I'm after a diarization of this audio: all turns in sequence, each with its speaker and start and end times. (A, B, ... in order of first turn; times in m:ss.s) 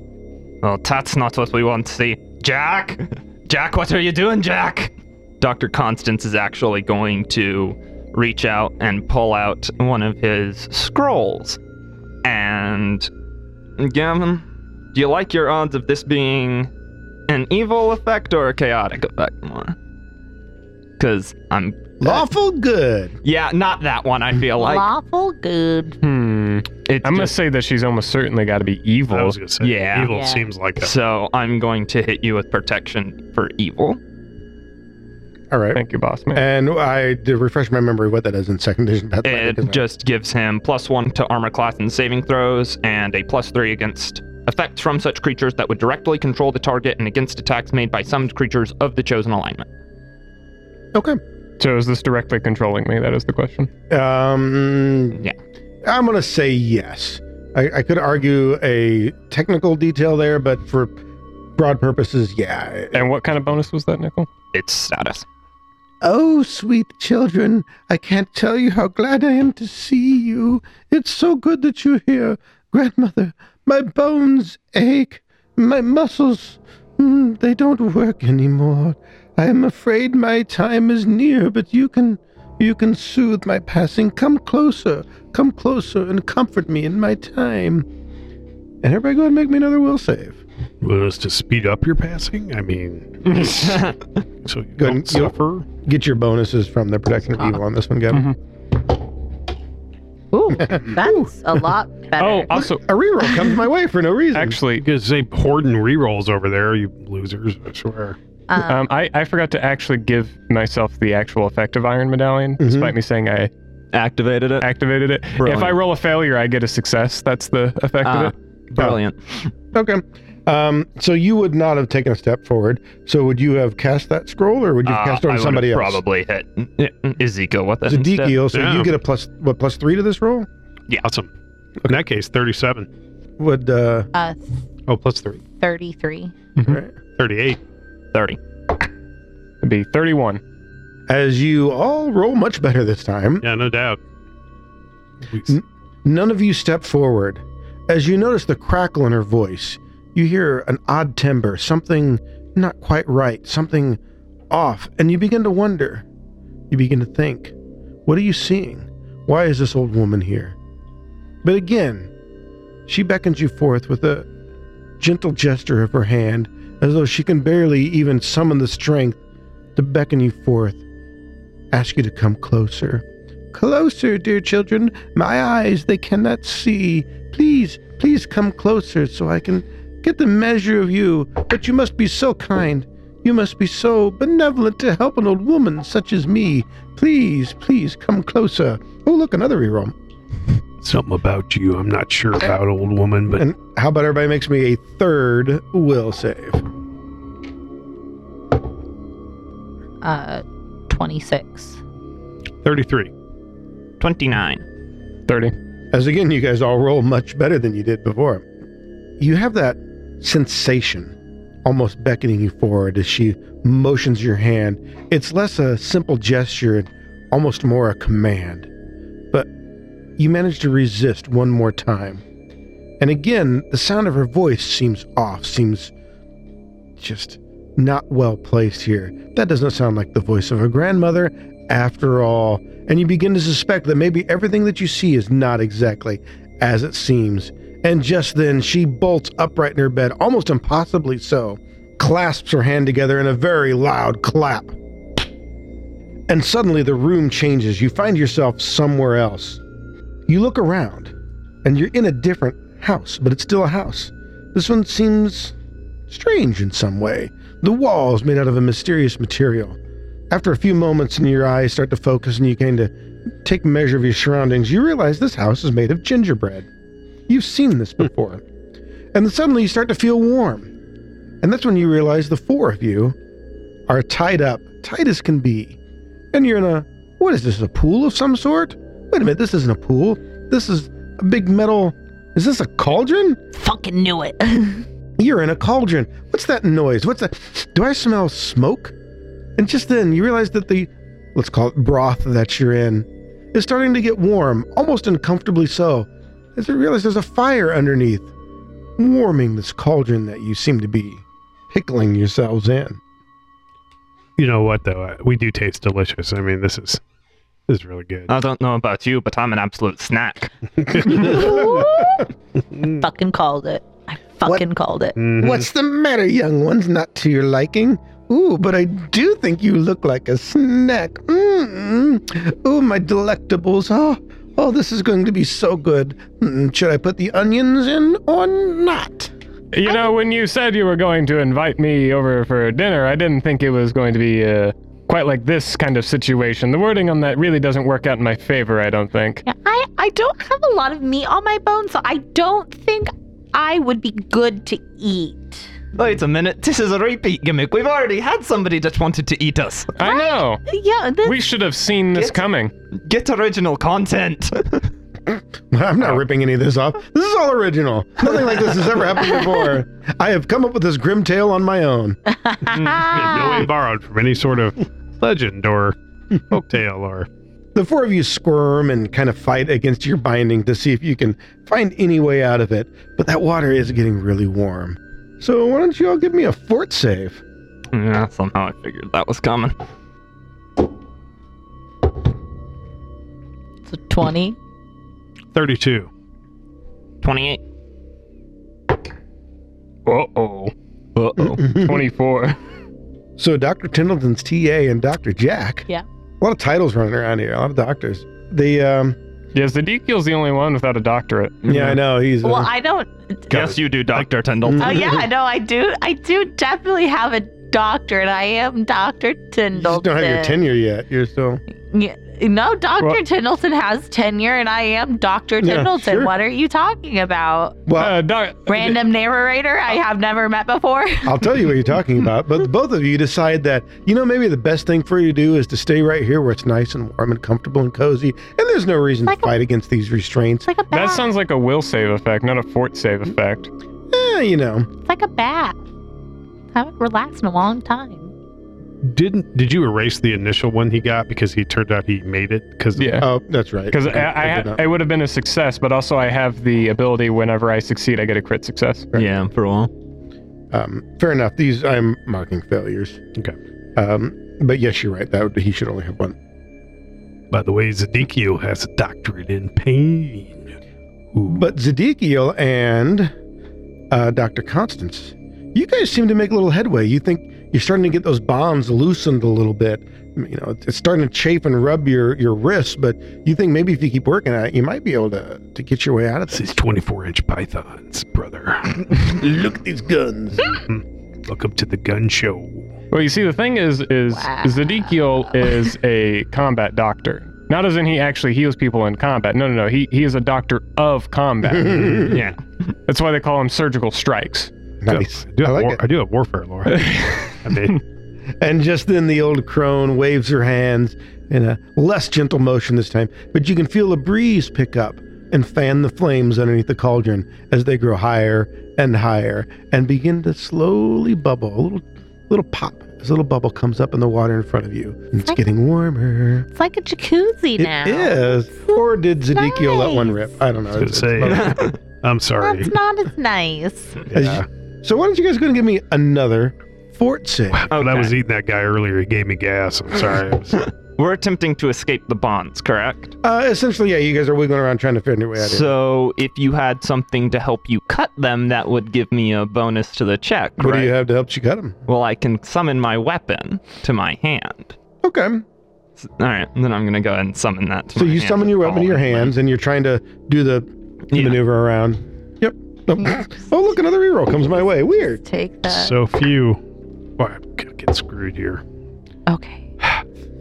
0:00.6-0:11.6 A
0:12.2-0:13.1 A
0:13.8-0:16.7 A
0:17.3-0:19.8 A
0:21.0-0:22.3 A
0:22.0-0:23.2 B
0:23.2-0:24.8 A
0:24.6-0:26.0 C
0:26.0-0:29.4 D
0:26.9-0:27.3 A
0:29.1-0:30.9 E
0:29.6-0:30.1 A
0:30.1-0:30.5 C
0:30.8-0:34.0 A
0:35.5-0:35.8 B
0:35.7-0:36.4 D
0:36.3-0:39.8 B
0:39.2-0:49.6 A
0:50.9-0:51.2 B
0:51.6-0:53.7 D
0:53.9-0:55.2 B
0:55.8-1:01.0 B
1:01.6-1:03.1 B
1:02.9-1:04.3 D
1:04.5-1:05.2 A
1:06.0-1:27.9 B
1:28.8-1:30.4 B
1:30.8-1:33.9 E
1:33.6-1:34.0 A
1:34.4-1:35.7 E
1:34.8-1:38.3 B
1:40.3-1:42.5 C
1:40.6-1:41.3 B
1:42.2-1:42.8 D
1:42.5-1:44.6 B
1:44.3-1:44.8 D
1:44.7-1:48.2 E
1:48.5-1:48.8 C
1:48.6-1:53.5 D
1:52.6-1:52.9 B
1:53.9-1:54.6 A
1:54.6-1:58.3 D
1:55.4-1:55.8 A
1:58.0-1:59.5 A
1:59.7-2:06.0 B
2:04.8-2:08.4 A
2:07.8-2:10.5 B
2:08.5-2:08.9 E
2:11.0-2:11.3 E
2:11.9-2:12.9 E
2:13.4-2:14.1 B
2:14.1-2:14.4 C
2:14.9-2:15.4 E
2:15.6-2:16.3 C
2:16.6-2:16.9 B
2:17.2-2:17.6 E
2:19.6-2:20.4 D
2:21.1-2:23.4 B
2:23.4-2:24.0 E
2:25.4-2:36.0 B
2:36.7-2:37.5 B
2:38.0-2:40.6 B
2:41.4-2:42.1 B
2:42.9-2:44.3 B
2:45.0-2:49.2 B
2:49.8-2:50.8 B
2:51.7-3:09.9 B
3:10.8-3:13.4 E
3:13.4-3:16.6 B
3:20.0-3:21.8 C
3:22.6-3:23.1 E
3:24.0-3:24.6 A
3:25.3-3:25.5 D
3:25.9-3:28.4 B
3:29.2-3:31.1 B
3:31.6-3:38.7 B
3:40.2-3:42.2 B
3:43.0-3:45.9 B
3:47.0-4:04.7 B
4:06.3-4:09.6 B
4:10.3-4:11.1 B
4:11.6-4:15.5 B
4:16.1-4:19.8 B
4:20.3-4:22.9 B
4:23.4-4:26.7 B
4:27.3-4:28.4 B
4:29.1-4:30.7 B
4:31.4-4:33.2 B
4:33.9-4:35.8 B
4:36.3-4:43.4 B
4:43.5-4:44.8 C
4:45.2-4:48.9 B
4:49.6-4:58.3 B
4:59.0-5:03.0 B
5:04.4-5:07.0 E
5:07.7-5:08.3 E
5:08.3-5:10.5 A
5:10.9-5:11.6 E
5:10.9-5:12.0 B
5:11.1-5:12.3 C
5:12.8-5:15.2 C
5:15.2-5:15.6 E
5:15.3-5:29.3 B
5:29.7-5:39.4 D
5:39.4-5:45.6 C
5:45.9-5:49.9 A
5:50.0-5:50.6 D
5:50.0-5:51.4 C
5:51.2-5:52.7 D
5:52.1-5:52.4 A
5:53.0-5:54.9 A
5:55.3-6:02.2 B
6:02.4-6:03.6 C
6:02.8-6:06.0 E
6:06.5-6:07.3 E
6:07.7-6:17.4 B
6:17.9-6:19.7 A
6:23.9-6:24.6 C
6:25.5-6:26.1 E
6:27.2-6:27.6 A
6:30.0-6:30.7 D
6:31.1-6:31.7 A
6:31.4-6:32.0 B
6:31.6-6:32.6 D
6:33.4-6:35.9 B
6:36.4-6:39.2 B
6:39.5-6:42.0 D
6:41.6-6:42.7 B
6:42.4-6:43.4 C
6:43.5-6:45.1 A
6:43.5-6:44.3 E
6:44.6-6:45.2 B
6:44.8-6:50.6 C
6:49.7-6:51.6 B
6:51.9-6:57.8 C
6:55.6-6:56.3 B
6:57.9-6:58.1 B
6:58.0-6:59.0 D
6:58.7-7:01.4 C
7:01.2-7:10.7 B
7:09.2-7:09.5 C
7:10.6-7:11.3 C
7:10.9-7:13.7 D
7:14.1-7:14.9 B
7:15.0-7:15.8 C
7:16.7-7:18.3 C
7:19.0-7:23.2 E
7:23.0-7:23.2 D
7:23.2-7:24.8 B
7:23.9-7:29.1 D
7:29.1-7:29.9 A
7:30.7-7:33.2 B
7:34.0-7:36.4 B
7:37.5-7:40.7 E
7:41.3-7:41.6 E
7:41.5-7:43.3 B
7:44.1-7:56.8 B
7:56.5-7:59.4 E
7:59.1-8:00.8 B
8:00.6-8:02.8 E
8:03.1-8:12.3 D
8:04.3-8:05.7 C
8:11.7-8:12.4 B
8:12.3-8:12.6 A
8:13.1-8:14.7 D
8:15.0-8:16.0 B
8:15.1-8:18.0 E
8:16.9-8:18.0 D
8:18.6-8:36.7 B
8:36.7-8:40.4 C
8:37.8-8:41.9 B
8:41.0-8:42.9 E
8:41.4-8:42.0 A
8:42.6-8:44.2 C
8:44.3-8:44.6 E
8:44.3-8:47.8 B
8:47.7-8:50.9 E
8:47.9-8:48.3 A
8:51.2-8:53.4 A
8:53.4-8:55.9 B
8:55.6-9:01.1 A
9:00.8-9:02.0 B
9:02.1-9:04.9 A
9:05.2-9:05.6 B
9:06.2-9:09.5 A
9:08.1-9:15.4 B
9:11.3-9:11.6 A
9:13.2-9:13.6 C
9:15.2-9:16.2 C
9:15.8-9:16.8 E
9:17.4-9:18.8 E
9:19.5-9:19.9 C